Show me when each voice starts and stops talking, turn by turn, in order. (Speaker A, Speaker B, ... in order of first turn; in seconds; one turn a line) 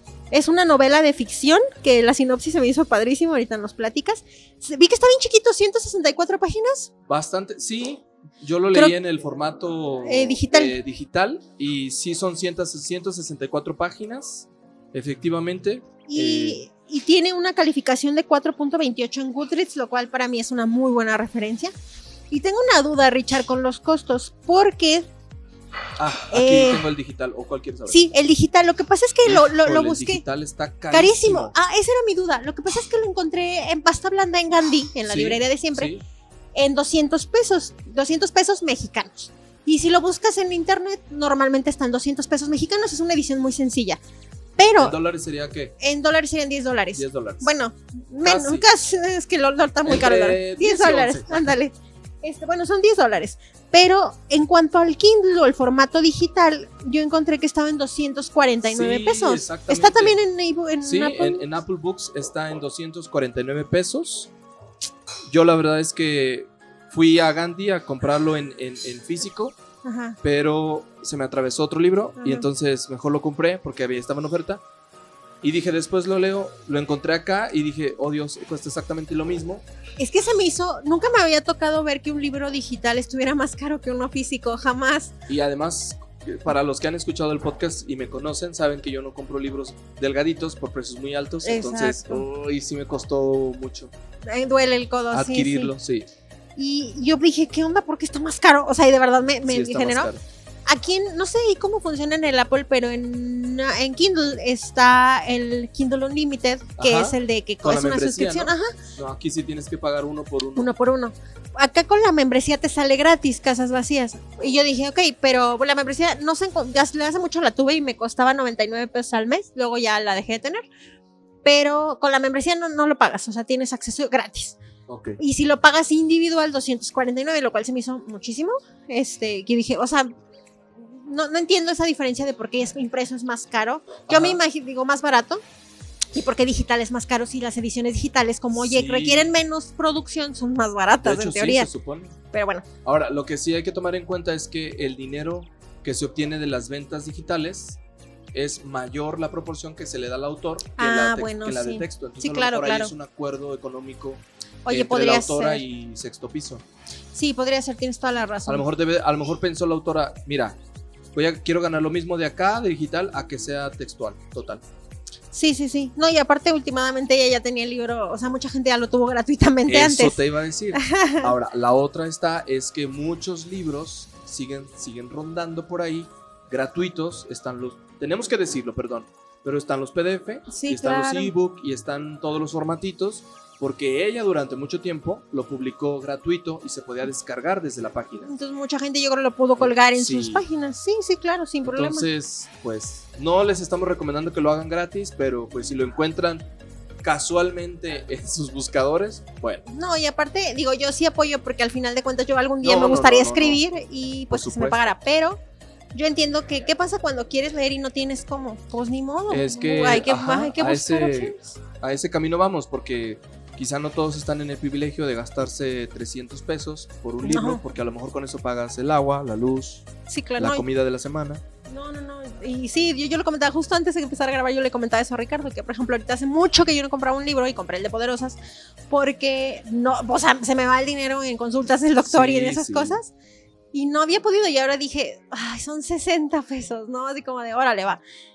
Speaker A: 0.3-6.9
Speaker B: 7.1-16.6
Speaker A: 10.1-10.8
Speaker A: 16.1-21.7
Speaker A: 22.3-25.1
Speaker B: 26.0-28.0
Speaker A: 26.3-26.8
Speaker A: 27.9-30.2
Speaker B: 29.2-31.5
Speaker A: 30.9-35.9
Speaker B: 35.0-36.0
Speaker A: 36.5-44.0
Speaker A: 44.6-45.0
Speaker B: 44.8-45.7
Speaker A: 45.8-61.4
Speaker B: 47.0-47.5
Speaker B: 48.2-48.7
Speaker B: 49.8-51.5
Speaker B: 58.6-60.2
Speaker B: 60.8-64.3
Speaker B: 65.3-69.5
Speaker A: 69.8-70.2
Speaker B: 70.2-74.6
Speaker A: 72.2-72.5
Speaker B: 75.4-79.6
Speaker A: 80.0-85.1
Speaker B: 85.3-93.9
Speaker A: 91.4-92.2
Speaker A: 94.2-95.7
Speaker B: 95.1-96.1
Speaker A: 96.6-100.1
Speaker B: 99.5-100.2
Speaker A: 100.7-108.8
Speaker B: 106.8-110.7
Speaker A: 110.5-120.6
Speaker A: 121.4-124.6
Speaker B: 124.9-125.2
Speaker A: 125.2-130.1
Speaker A: 130.9-135.4
Speaker B: 134.1-134.4
Speaker A: 136.1-141.7
Speaker B: 138.5-139.3
Speaker B: 141.0-142.2
Speaker A: 142.3-142.7
Speaker B: 142.8-147.8
Speaker B: 148.3-156.6
Speaker A: 150.8-152.9
Speaker A: 154.6-155.6
Speaker A: 157.1-158.6
Speaker B: 158.5-160.6
Speaker B: 161.1-164.6
Speaker A: 165.3-170.2
Speaker B: 169.7-188.3
Speaker A: 170.7-171.3
Speaker A: 180.5-181.3
Speaker A: 188.2-192.1
Speaker B: 189.6-190.4
Speaker B: 191.7-196.4
Speaker B: 197.0-199.6
Speaker A: 199.7-205.4
Speaker B: 202.6-203.7
Speaker B: 204.3-204.9
Speaker A: 205.9-211.5
Speaker B: 209.3-219.8
Speaker A: 217.2-217.6
Speaker A: 220.1-220.6
Speaker B: 220.4-221.4
Speaker A: 221.7-228.4
Speaker A: 228.9-233.1
Speaker B: 232.0-233.0
Speaker A: 233.7-238.0